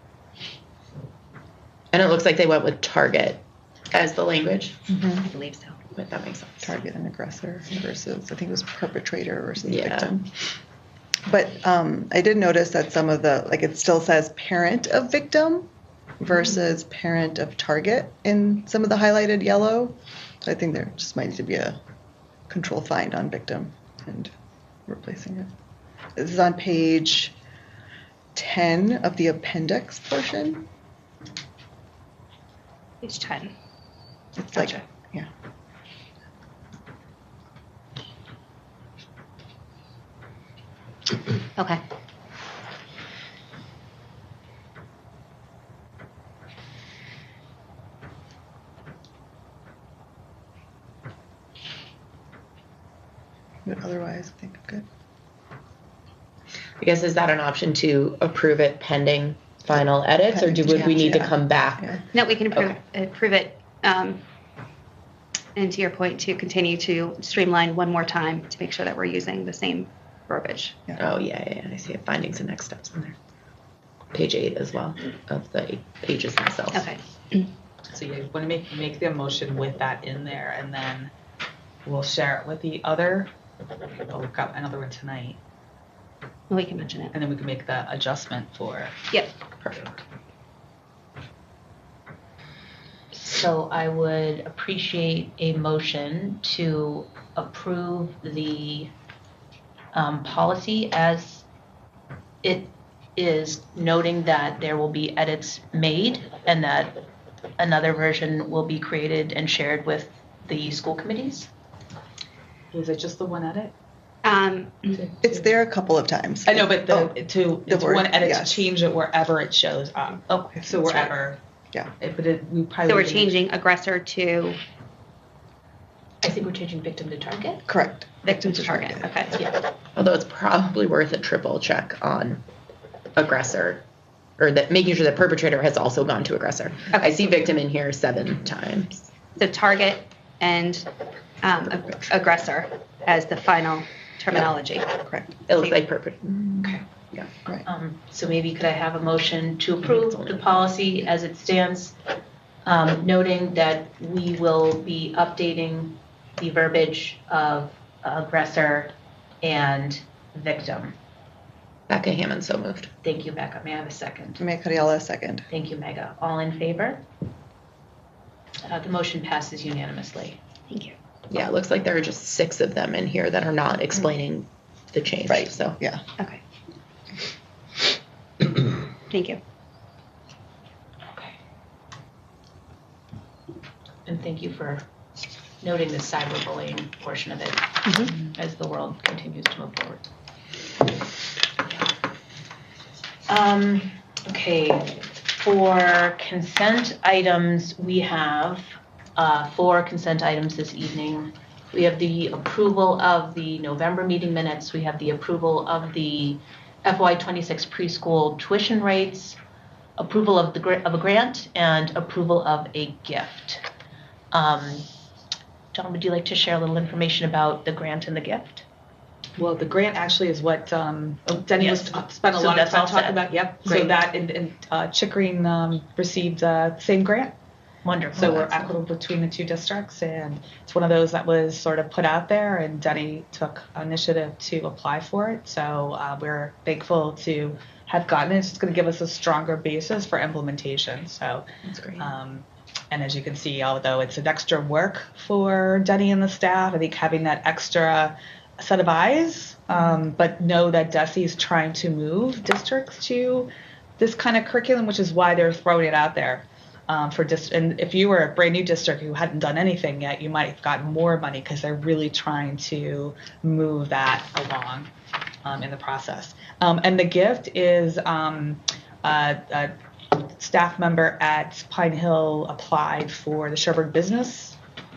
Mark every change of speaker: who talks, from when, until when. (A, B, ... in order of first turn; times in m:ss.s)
0:01.9-0:04.8 A
0:04.9-0:05.3 B
0:05.2-0:05.8 C
0:05.9-0:06.7 A
0:06.6-0:10.3 B
0:09.6-0:10.1 A
0:11.3-0:15.7 B
0:16.2-0:21.8 B
0:22.5-0:24.3 B
0:24.9-0:25.5 B
0:26.2-0:27.4 B
0:28.3-0:30.6 B
0:33.0-0:33.5 C
0:34.4-0:35.3 B
0:41.6-0:41.8 C
0:53.6-0:54.8 B
0:56.8-1:02.7 A
1:00.3-1:02.0 B
1:02.1-1:04.2 C
1:05.5-1:10.8 C
1:11.0-1:13.2 A
1:14.1-1:16.8 A
1:16.7-1:17.5 C
1:17.9-1:21.1 D
1:21.8-1:23.3 D
1:24.1-1:25.4 D
1:26.5-1:27.1 C
1:27.1-1:28.9 D
1:29.6-1:30.0 A
1:33.1-1:38.9 E
1:39.9-1:41.4 E
1:42.4-1:47.0 E
1:47.6-1:51.5 E
1:52.7-1:53.7 D
1:54.2-1:55.1 C
1:54.9-1:55.3 D
1:55.2-1:58.7 B
1:56.5-2:01.4 D
2:00.7-2:01.1 B
2:02.0-2:03.3 D
2:02.8-2:04.6 C
2:06.2-2:07.6 E
2:07.7-2:09.3 B
2:08.2-2:09.4 C
2:09.3-2:09.7 E
2:09.9-2:12.4 A
2:13.1-2:13.8 A
2:14.4-2:19.1 A
2:19.4-2:20.9 C
2:21.4-2:24.9 C
2:25.0-2:25.3 B
2:25.5-2:27.3 A
2:25.5-2:25.8 C
2:27.6-2:31.9 E
2:29.9-2:30.6 A
2:32.6-2:41.0 E
2:41.9-2:42.9 A
2:43.0-2:44.4 E
2:44.4-2:45.5 B
2:45.5-2:47.0 E
2:48.6-2:50.4 E
2:51.3-2:55.8 A
2:55.3-2:56.0 B
2:59.1-2:59.4 C
3:04.0-3:04.8 E
3:05.6-3:10.0 E
3:13.3-3:29.4 E
3:30.0-3:33.6 E
3:34.3-3:34.9 E
3:35.7-3:38.6 E
3:39.4-3:47.3 D
3:41.6-3:44.0 E
3:47.8-3:48.7 E
3:48.2-4:01.4 D
4:01.6-4:02.1 A
4:02.0-4:24.9 D
4:25.4-4:34.6 D